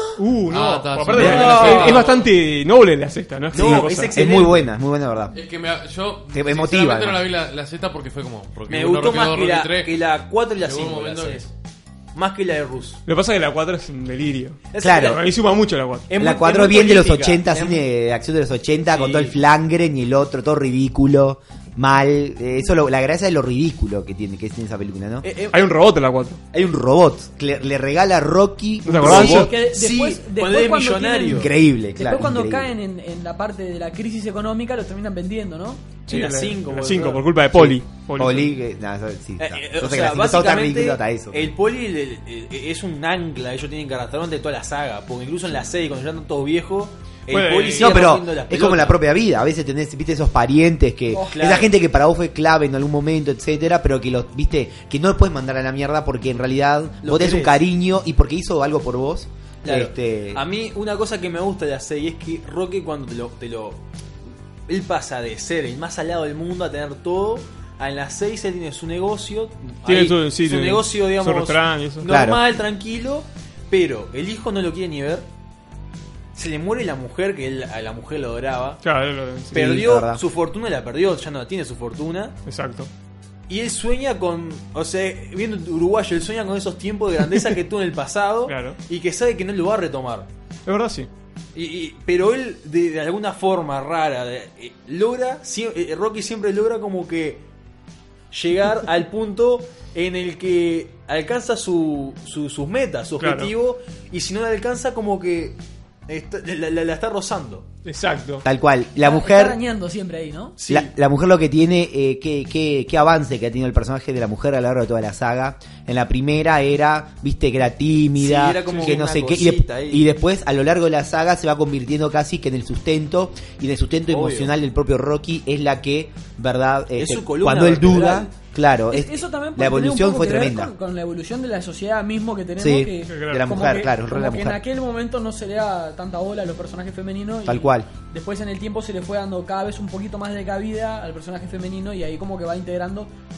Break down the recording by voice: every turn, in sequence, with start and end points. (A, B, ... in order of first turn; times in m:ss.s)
0:00.2-0:04.4 A
0:00.5-0:02.2 B
0:01.1-0:02.2 C
0:01.2-0:01.6 D
0:03.5-0:04.7 C
0:03.6-0:05.4 D
0:05.3-0:10.0 B
0:06.3-0:07.3 D
0:08.7-0:11.5 C
0:10.6-0:11.5 B
0:12.1-0:13.0 C
0:13.1-0:16.1 A
0:14.7-0:15.4 C
0:14.8-0:15.2 D
0:16.1-0:17.8 C
0:16.2-0:25.3 D
0:18.9-0:19.4 C
0:25.2-0:25.8 C
0:25.5-0:26.4 A
0:26.5-0:29.5 D
0:28.8-0:29.5 A
0:29.0-0:31.5 C
0:29.2-0:35.9 E
0:31.3-0:32.7 D
0:36.1-0:37.7 C
0:36.1-0:38.5 A
0:37.6-0:41.5 D
0:39.4-0:49.0 C
0:47.3-0:48.1 A
0:47.7-1:00.4 D
0:51.1-0:51.7 C
0:57.0-0:57.6 C
0:59.6-1:03.8 C
1:04.7-1:15.3 C
1:09.8-1:12.1 A
1:12.0-1:12.4 D
1:16.4-1:18.8 C
1:18.8-1:19.6 A
1:19.5-1:20.2 D
1:19.5-1:22.4 C
1:22.5-1:22.9 A
1:23.5-1:30.3 C
1:28.5-1:28.8 A
1:30.7-1:31.1 A
1:31.6-1:37.4 C
1:38.3-1:47.7 C
1:43.2-1:43.5 A
1:47.8-1:48.4 A
1:48.4-1:49.6 D
1:49.0-1:50.6 E
1:50.6-1:50.9 C
1:50.7-2:10.7 D
1:58.2-2:00.1 C
2:04.1-2:04.5 C
2:07.0-2:08.3 C
2:08.9-2:23.1 E
2:12.6-2:14.6 D
2:13.1-2:13.5 A
2:17.4-2:17.9 D